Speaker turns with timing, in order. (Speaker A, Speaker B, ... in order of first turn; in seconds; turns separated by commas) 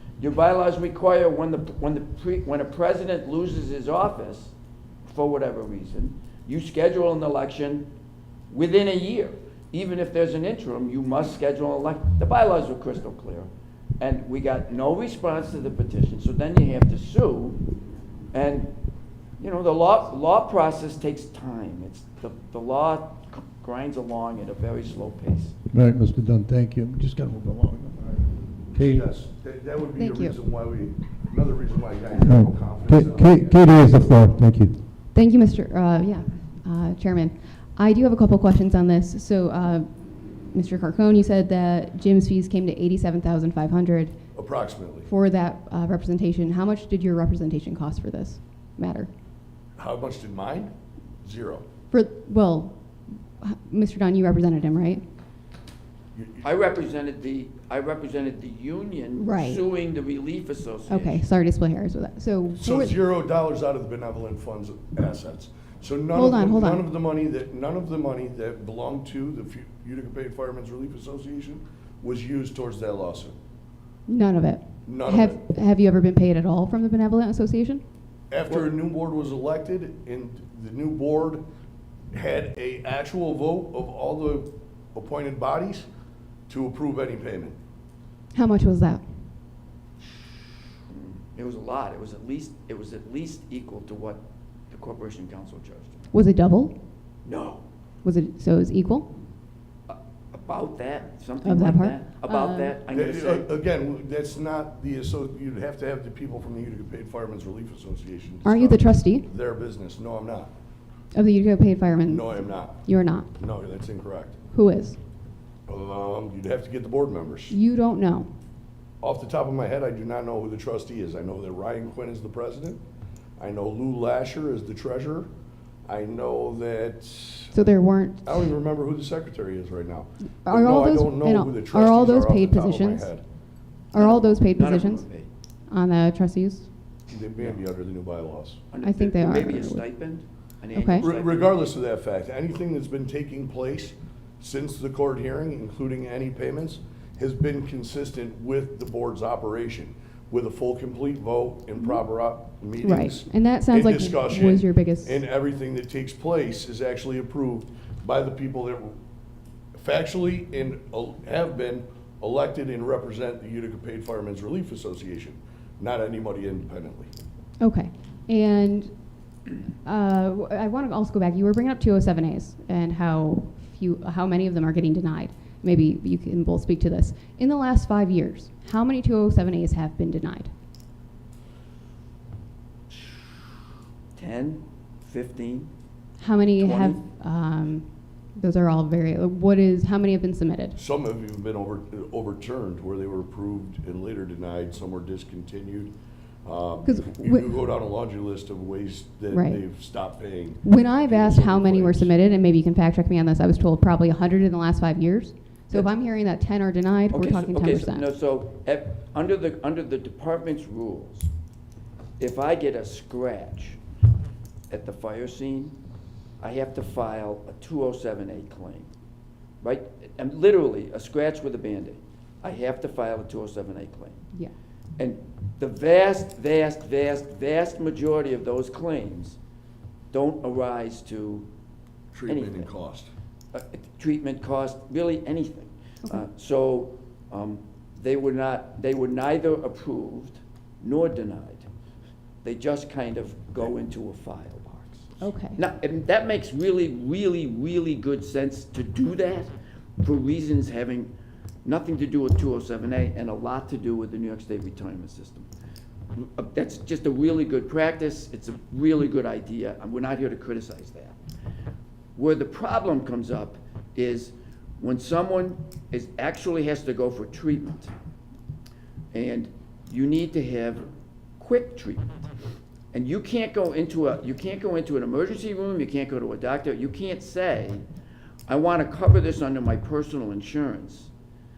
Speaker A: 0.2-4.5, Speaker A: 5.0-7.9, Speaker A: 8.5-13.5, Speaker A: 14.0-17.6, Speaker A: 18.3-18.7, Speaker A: 19.4-25.5, Speaker B: 25.7-28.2, Speaker B: 28.7-29.0, Speaker C: 28.8-34.1, Speaker D: 30.0-30.4, Speaker B: 32.2-34.8, Speaker D: 35.1-39.9, Speaker D: 40.4-44.2, Speaker C: 44.3-45.1, Speaker D: 45.0-49.1, Speaker C: 49.8-50.7, Speaker C: 51.2-51.6, Speaker D: 51.9-52.8, Speaker D: 53.4-55.0, Speaker C: 56.1-56.5, Speaker A: 56.4-61.2, Speaker D: 59.2-59.6, Speaker D: 60.9-62.9, Speaker C: 62.5-73.3, Speaker D: 66.1-66.8, Speaker D: 74.1-77.8, Speaker C: 74.8-75.4, Speaker C: 78.3-81.4, Speaker C: 82.1-85.8, Speaker C: 86.5-87.6, Speaker D: 88.3-89.3, Speaker A: 90.9-96.1, Speaker D: 96.1-96.7, Speaker A: 97.2-97.6, Speaker D: 98.0-99.1, Speaker A: 99.9-103.5, Speaker D: 101.4-102.7, Speaker C: 102.9-110.5, Speaker D: 108.4-109.3, Speaker D: 111.1-113.3, Speaker C: 112.0-114.3, Speaker D: 114.5-115.0, Speaker C: 115.7-117.5, Speaker D: 117.5-118.3, Speaker C: 119.0-122.8, Speaker C: 123.4-125.3, Speaker C: 125.9-127.7, Speaker D: 127.5-128.5, Speaker C: 128.2-133.2, Speaker D: 130.4-133.1, Speaker D: 133.9-135.0, Speaker A: 133.9-135.3, Speaker D: 135.7-136.7, Speaker C: 137.1-138.6, Speaker A: 138.7-141.7, Speaker D: 138.8-139.8, Speaker D: 140.7-141.1, Speaker C: 141.0-158.9, Speaker D: 152.8-155.2, Speaker C: 159.8-167.1, Speaker D: 167.6-168.9, Speaker D: 169.8-180.5, Speaker A: 184.2-185.7, Speaker D: 186.2-190.8, Speaker A: 186.6-187.0, Speaker C: 190.8-195.9, Speaker C: 196.4-202.1, Speaker D: 196.8-197.6, Speaker D: 199.3-199.6, Speaker D: 200.6-208.1, Speaker A: 207.1-211.3, Speaker A: 212.2-213.8, Speaker A: 214.7-215.7, Speaker A: 216.4-218.9, Speaker A: 219.6-224.2, Speaker A: 225.0-229.4, Speaker A: 230.1-231.5, Speaker C: 232.1-233.1, Speaker A: 232.3-232.7, Speaker A: 233.5-241.7, Speaker A: 242.4-251.1, Speaker D: 245.2-245.6, Speaker A: 251.6-255.5, Speaker A: 256.1-261.1, Speaker A: 262.1-267.9, Speaker A: 269.1-270.9, Speaker A: 271.4-272.3, Speaker A: 272.9-277.8, Speaker A: 278.5-281.1